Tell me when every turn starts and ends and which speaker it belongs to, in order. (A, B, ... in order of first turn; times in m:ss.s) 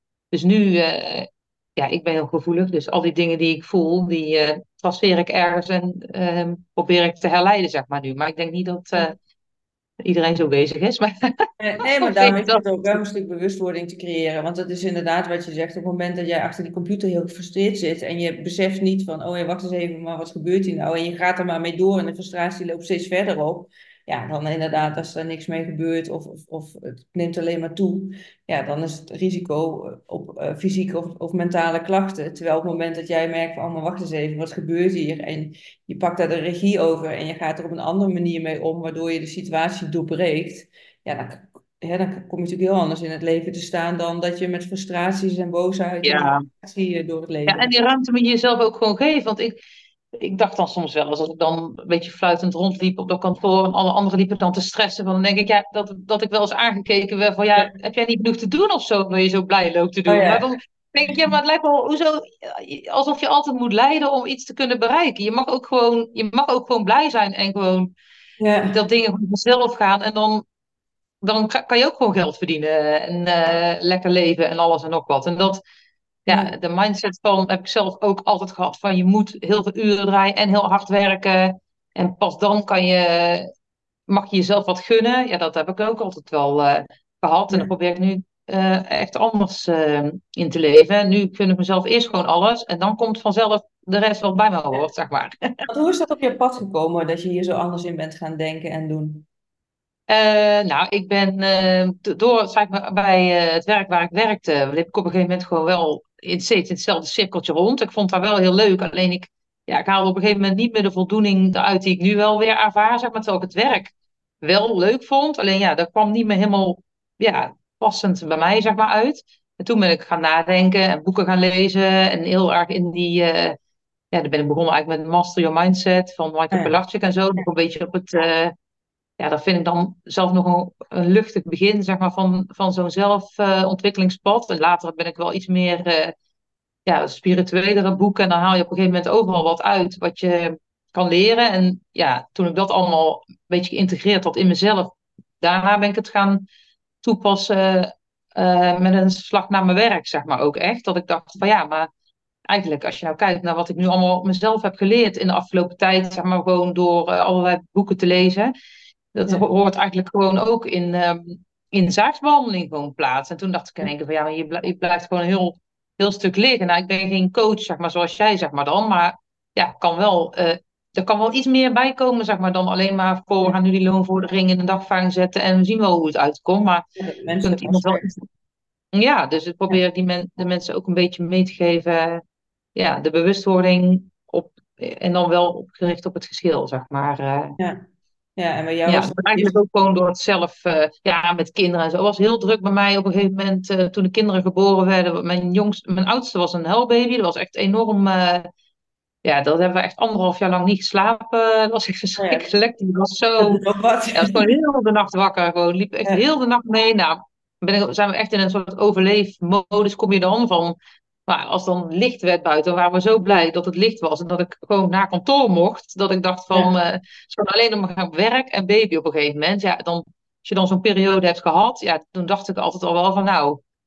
0:00.3-0:09.2 A
0:10.0-0:11.3 A
0:11.6-0:47.7 B
0:12.0-0:13.0 A
0:46.0-0:46.5 A
0:47.5-0:49.6 A
0:50.2-1:07.9 A
1:00.1-1:00.5 B
1:08.4-1:08.8 B
1:08.7-1:10.4 A
1:11.2-1:15.6 A
1:16.3-1:23.5 A
1:16.3-1:16.5 B
1:24.1-1:35.5 A
1:35.7-1:39.2 B
1:40.1-2:03.6 A
2:04.1-2:08.5 A
2:09.2-2:16.1 A
2:16.9-2:26.4 A
2:27.0-2:31.9 A
2:32.5-2:38.5 A
2:39.1-2:56.8 A
2:57.0-2:58.1 B
2:57.4-2:58.2 A
2:58.9-3:02.2 A
3:02.8-3:07.6 A
3:08.4-3:09.6 B
3:08.9-3:18.5 A
3:19.2-3:23.6 A
3:22.2-3:22.5 B
3:23.4-3:24.5 B
3:24.2-3:30.8 A
3:31.3-3:43.6 A